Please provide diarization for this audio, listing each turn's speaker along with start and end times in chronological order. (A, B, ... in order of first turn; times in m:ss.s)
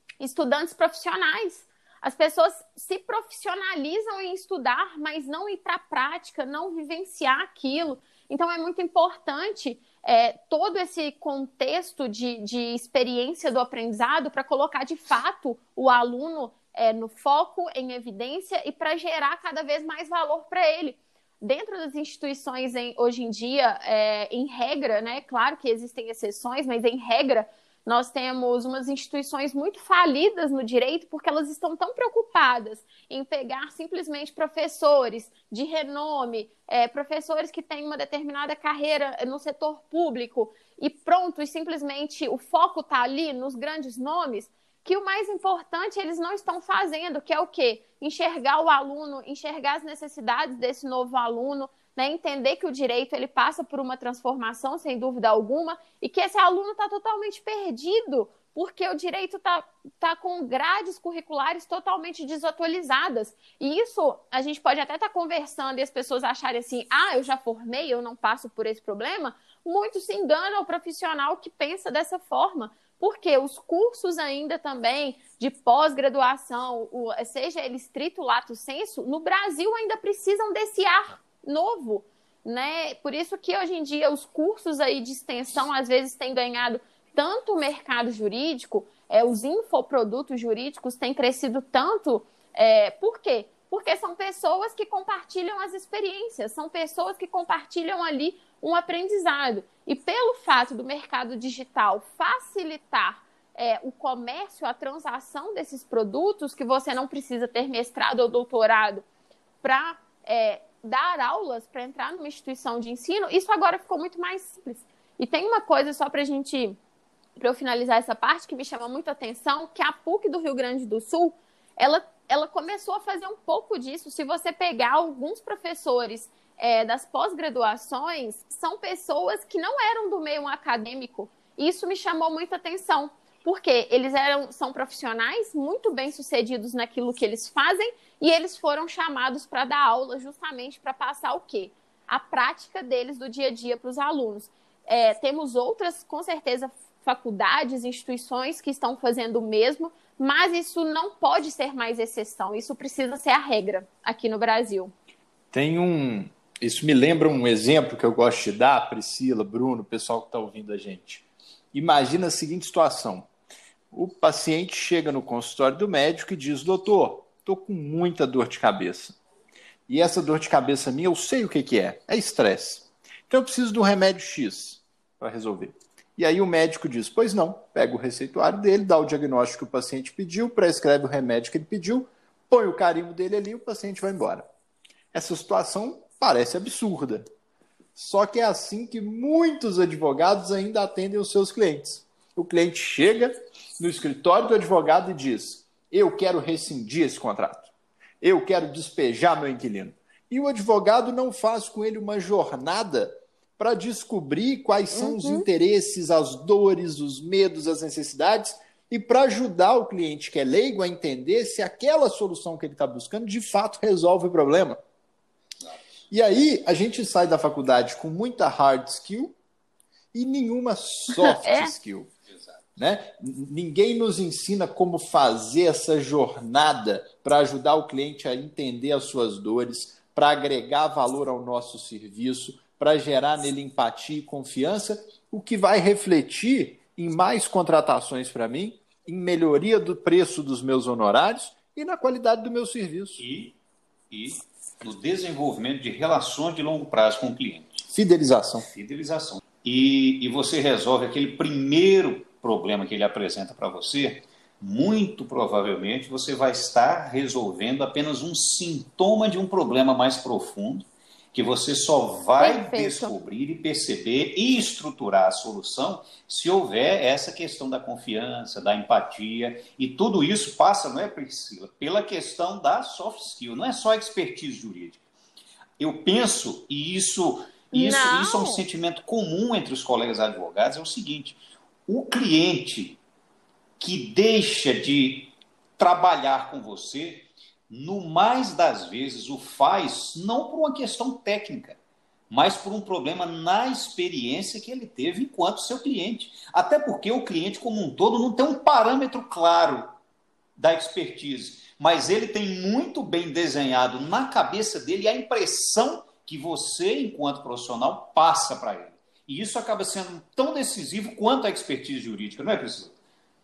0:00.2-1:49.0 A
1:49.6-1:56.8 A
1:57.4-2:34.9 A
2:35.5-2:43.3 B
2:43.9-2:49.2 B
2:49.9-3:04.4 B
3:05.1-3:07.2 B
3:07.9-3:34.8 B
3:24.9-3:25.4 A
3:36.1-3:39.3 B
3:40.1-3:42.1 B
3:41.1-3:41.7 A
3:42.8-4:03.2 B
4:03.2-4:03.5 C
4:04.1-4:07.8 C
4:07.9-4:08.7 B
4:08.7-4:35.0 C
4:22.4-4:23.1 A
4:35.8-4:43.0 C
4:37.7-4:38.6 A
4:43.8-4:51.8 C
4:52.3-4:59.9 C
5:00.6-5:12.9 C